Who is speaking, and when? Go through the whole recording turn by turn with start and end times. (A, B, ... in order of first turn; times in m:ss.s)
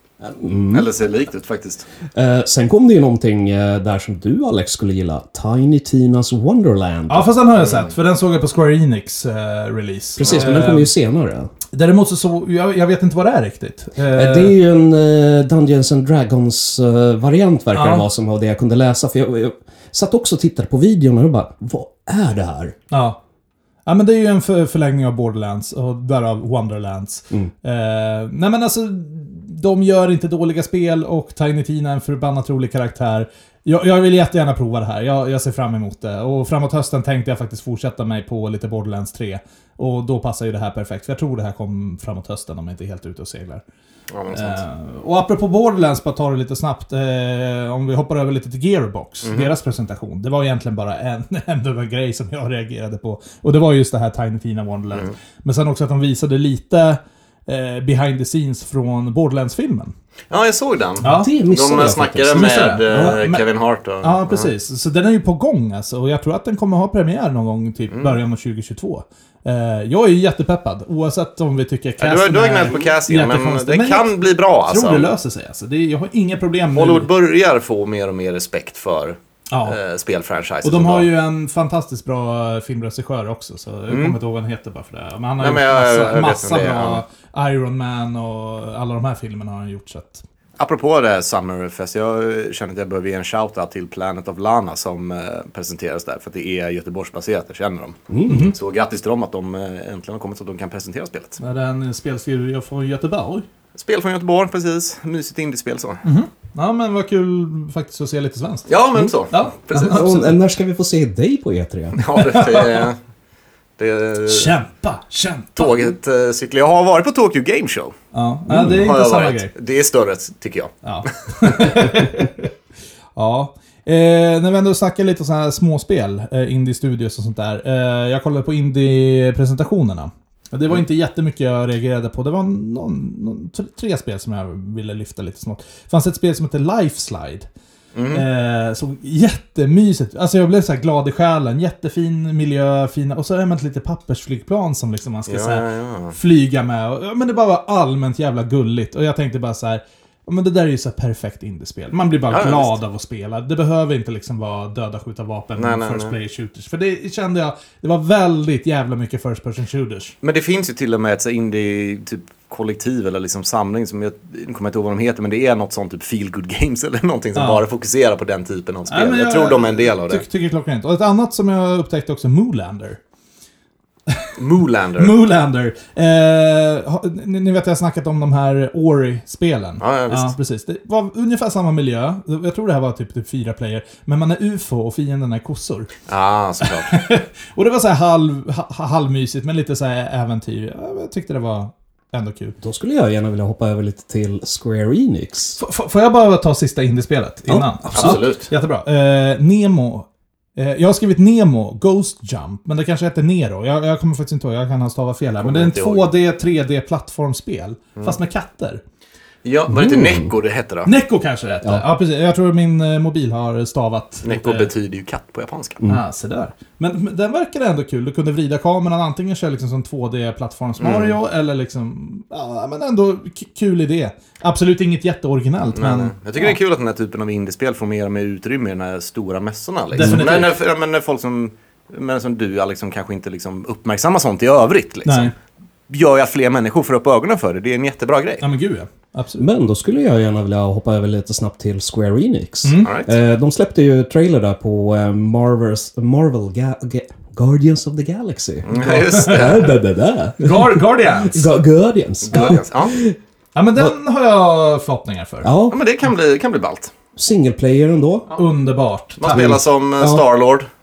0:00.2-0:00.9 A
0:00.7-0:01.8 B
0:02.1-0:07.3 A
0:07.1-0:10.9 C
0:10.2-0:11.5 A
0:11.7-0:14.5 C
0:14.1-0:22.8 A
0:17.7-0:18.0 C
0:22.9-0:23.2 C
0:23.8-0:43.6 C
0:44.1-0:44.6 B
0:44.3-0:59.9 C
0:49.2-0:49.5 B
1:00.3-1:04.5 B
1:01.0-1:01.3 C
1:01.0-1:03.2 A
1:02.3-1:03.4 C
1:04.0-1:14.1 C
1:07.9-1:08.2 B
1:12.0-1:15.1 B
1:14.7-1:17.1 C
1:16.8-1:21.1 B
1:19.5-1:19.8 C
1:20.6-1:30.2 C
1:23.9-1:24.2 B
1:25.4-1:27.0 B
1:30.6-1:41.4 B
1:38.1-1:38.5 A
1:38.3-1:38.5 C
1:41.4-1:43.5 C
1:43.7-1:46.0 B
1:46.0-1:48.7 C
1:48.7-1:50.2 B
1:49.3-1:50.3 C
1:49.9-1:52.0 A
1:52.0-1:53.0 B
1:52.0-1:52.9 C
1:53.8-1:54.5 B
1:54.3-1:55.9 C
1:55.6-1:57.9 B
1:58.1-1:59.5 C
1:58.5-2:00.7 B
2:00.8-2:02.4 C
2:01.4-2:01.8 B
2:03.2-2:17.5 C
2:17.9-2:18.2 B
2:18.1-2:40.1 C
2:25.3-2:26.2 B
2:32.3-2:32.7 B
2:35.6-2:36.1 B
2:40.2-2:50.2 B
2:47.3-2:47.6 C
2:48.9-2:53.0 C
2:54.1-2:54.4 C
2:54.4-2:55.1 B
2:55.0-3:05.9 C
2:59.8-3:00.3 B
3:06.1-3:06.9 B
3:06.6-3:12.6 C
3:12.6-3:15.6 A
3:15.6-3:28.8 C
3:17.5-3:18.2 A
3:17.9-3:18.5 B
3:25.4-3:26.1 B
3:29.4-3:30.9 B
3:29.7-3:30.3 A
3:30.8-3:34.7 C
3:34.2-3:35.8 B
3:35.8-3:46.6 C
3:40.8-3:41.2 B
3:45.7-3:55.3 B
3:49.9-3:50.6 C
3:50.0-3:50.3 A
3:55.0-3:55.3 C
3:55.9-3:58.4 B
3:58.4-3:59.4 C
3:59.4-4:13.2 A
4:02.6-4:03.0 C
4:02.8-4:03.1 B
4:08.6-4:09.7 B
4:08.8-4:09.5 C
4:10.4-4:11.5 C
4:12.3-4:13.0 B
4:12.3-4:12.6 C
4:13.6-4:15.5 C
4:15.4-4:15.8 A
4:15.7-4:16.9 B
4:17.2-4:18.3 A
4:18.3-4:19.6 C
4:19.2-4:20.6 B
4:20.0-4:20.2 A